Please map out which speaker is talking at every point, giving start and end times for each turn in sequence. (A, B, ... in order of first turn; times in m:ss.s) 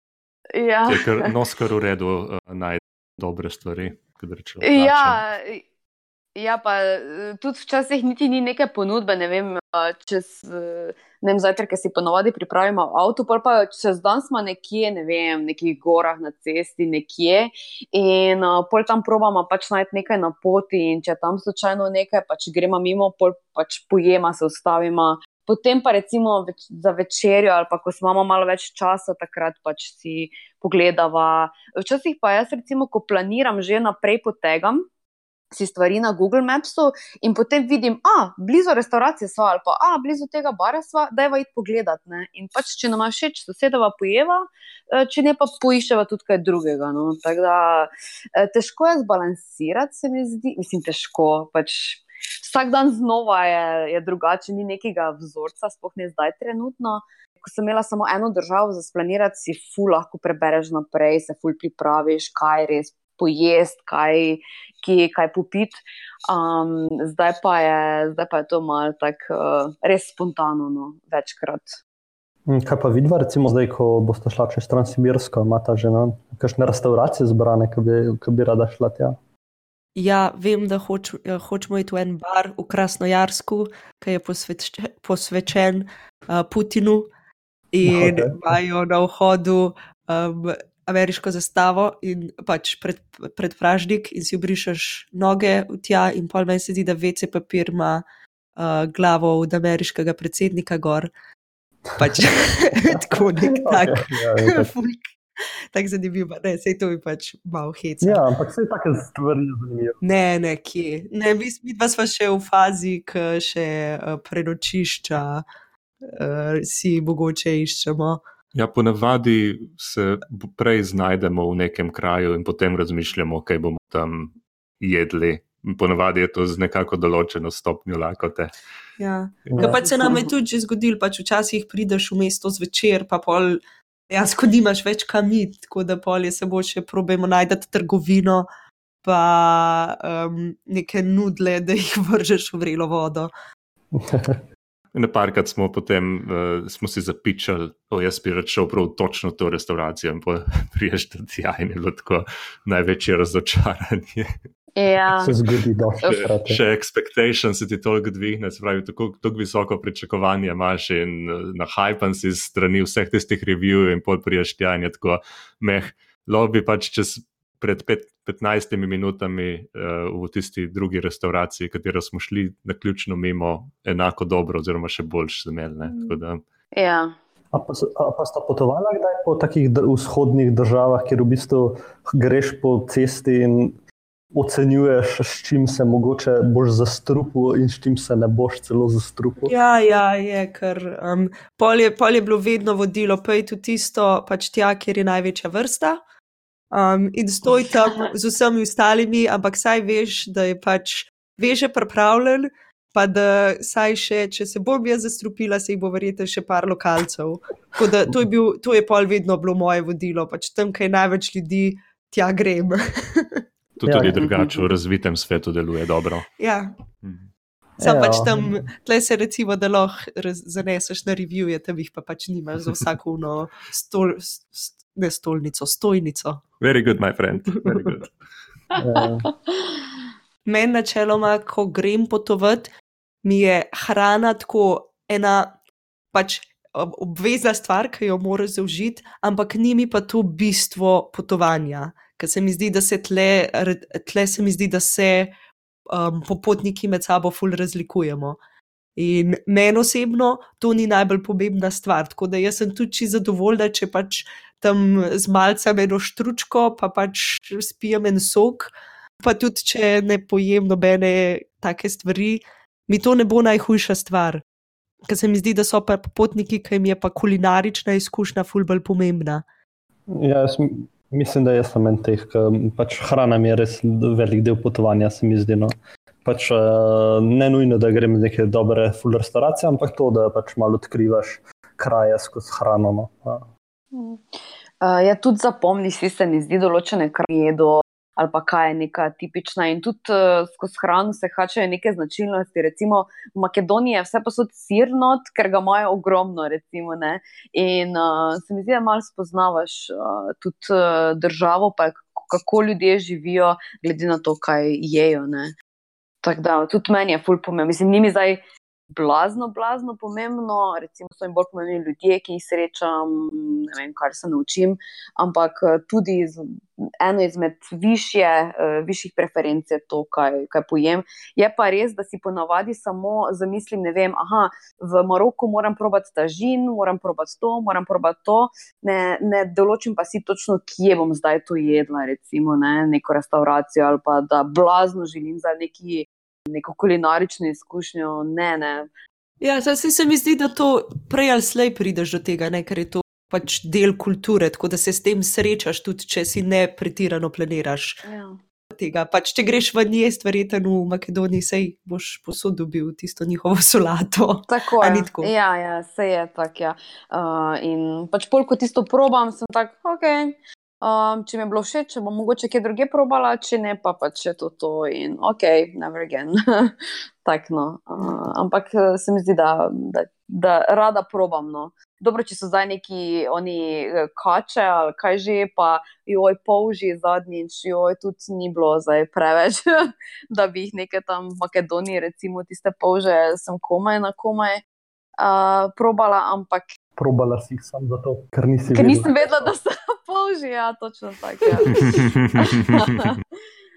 0:00.5-0:01.3 A
0:00.9-0:05.2 B
0:04.6-0:05.6 A
0:06.4-0:34.8 A
0:35.5-1:11.8 A
1:12.5-1:19.2 C
1:20.0-1:27.1 D
1:27.7-1:38.0 D
1:27.8-1:28.6 C
1:38.6-1:41.1 D
1:42.0-1:48.2 D
1:42.9-1:44.7 C
1:48.0-1:50.0 C
1:50.0-1:55.4 D
1:56.0-1:58.2 D
1:58.6-2:08.5 B
2:09.0-2:13.6 D
2:09.5-2:10.2 C
2:14.1-2:18.5 D
2:19.0-2:23.3 D
2:23.9-2:24.4 C
2:24.9-2:34.3 B
2:34.8-2:35.4 A
2:35.2-2:36.6 C
2:36.1-2:56.4 B
2:56.7-2:57.1 A
2:57.5-3:03.8 C
3:04.3-3:09.5 C
3:09.5-3:16.0 D
3:16.7-3:33.4 D
3:33.8-3:36.3 B
3:33.8-3:34.2 C
3:34.2-3:34.5 A
3:36.4-3:36.7 D
3:37.0-3:37.3 B
3:37.8-3:38.5 C
3:37.8-3:46.4 D
3:46.6-3:48.2 B
3:47.5-3:47.8 D
3:48.8-3:49.3 C
3:50.5-3:52.7 D
3:53.2-3:55.5 D
3:56.1-4:05.3 D
4:05.9-4:08.4 D
4:09.0-4:24.4 D
4:25.1-4:29.4 D
4:30.1-4:35.7 C
4:36.2-4:43.5 C
4:43.9-4:44.2 A
4:44.8-5:05.5 A
5:06.2-5:08.4 A
5:08.9-5:38.9 A
5:39.4-5:48.0 D
5:48.0-5:48.4 A
5:48.7-5:55.3 D
5:54.5-6:24.6 A
6:25.2-6:26.7 A
6:27.0-6:29.5 C
6:28.7-6:33.2 A
6:31.8-6:32.8 B